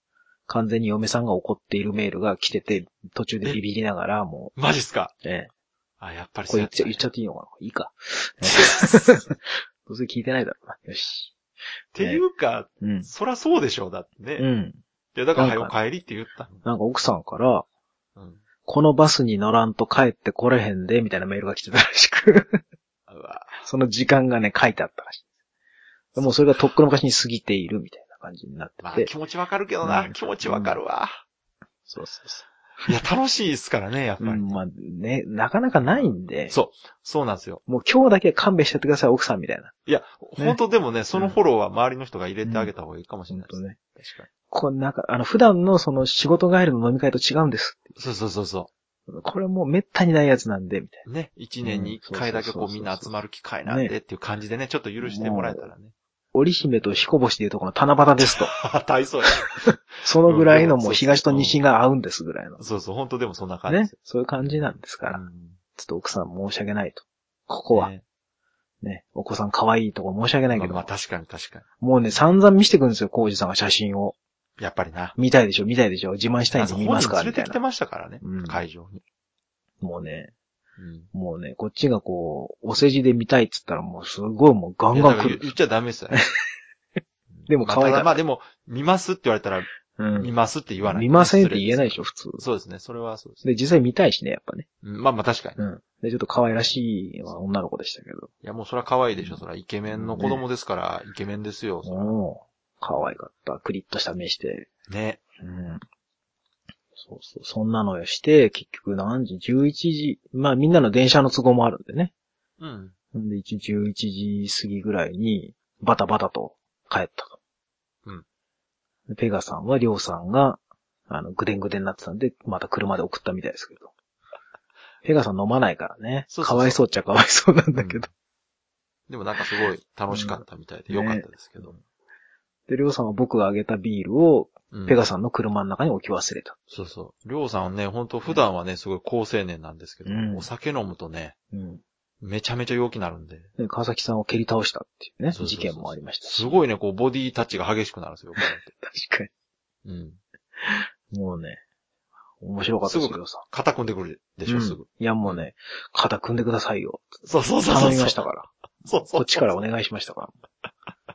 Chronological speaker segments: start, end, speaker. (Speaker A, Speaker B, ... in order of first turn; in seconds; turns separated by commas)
Speaker A: 0.5-4.6, Speaker B: 4.6-5.1, Speaker A: 5.2-5.5, Speaker B: 6.0-7.0, Speaker A: 6.5-11.3, Speaker B: 8.5-9.1, Speaker B: 11.9-14.5, Speaker A: 12.0-12.2, Speaker A: 12.8-13.1, Speaker A: 14.4-14.8, Speaker B: 15.2-16.6, Speaker A: 15.4-15.7, Speaker A: 16.6-17.7, Speaker B: 18.2-18.4, Speaker A: 18.6-22.6, Speaker B: 23.1-23.6, Speaker A: 23.6-25.2, Speaker A: 26.2-29.1, Speaker B: 28.8-31.2, Speaker A: 29.8-30.8, Speaker A: 31.9-32.9, Speaker B: 32.9-34.6, Speaker A: 34.2-36.5, Speaker B: 35.8-37.6, Speaker A: 37.7-39.7, Speaker B: 39.9-44.3, Speaker A: 42.4-42.7, Speaker A: 43.3-43.8, Speaker A: 44.5-48.0, Speaker B: 48.0-48.7, Speaker A: 49.1-51.1, Speaker B: 51.1-55.9, Speaker A: 51.6-53.9, Speaker A: 55.0-55.7, Speaker A: 56.3-58.5, Speaker B: 58.2-61.6, Speaker A: 59.6-62.6, Speaker B: 62.6-65.6, Speaker A: 63.7-65.2, Speaker A: 65.8-67.9, Speaker B: 67.7-68.0, Speaker A: 68.8-70.9, Speaker B: 70.5-71.7, Speaker A: 71.8-74.2, Speaker B: 74.6-75.2, Speaker A: 75.2-77.6, Speaker B: 76.5-79.0, Speaker A: 78.2-78.6, Speaker A: 79.8-80.3, Speaker B: 80.8-81.1, Speaker A: 81.1-85.5, Speaker B: 84.9-86.2, Speaker B: 87.3-93.4, Speaker A: 87.5-88.2, Speaker A: 90.0-92.4, Speaker A: 93.4-94.7, Speaker B: 94.8-95.6, Speaker A: 95.6-98.3, Speaker B: 98.4-102.1, Speaker A: 99.2-100.4, Speaker A: 101.8-104.7, Speaker B: 104.9-105.2, Speaker A: 105.4-105.8, Speaker A: 107.0-112.1, Speaker B: 112.6-112.9, Speaker A: 113.1-117.4, Speaker A: 119.1-123.9, Speaker A: 125.0-128.1, Speaker B: 126.3-126.8, Speaker B: 127.8-128.1, Speaker B: 129.1-131.7, Speaker A: 130.1-131.8, Speaker A: 132.7-136.6, Speaker B: 134.7-135.0, Speaker B: 136.7-141.4, Speaker A: 140.1-140.5, Speaker A: 141.5-141.8, Speaker B: 142.2-143.5, Speaker A: 143.6-146.6, Speaker B: 145.3-148.7, Speaker A: 148.4-149.3, Speaker B: 149.8-150.2, Speaker A: 150.6-151.6, Speaker A: 152.4-153.4, Speaker B: 152.8-155.4, Speaker A: 154.5-158.5, Speaker B: 157.2-158.3, Speaker B: 158.8-159.4, Speaker A: 159.0-160.4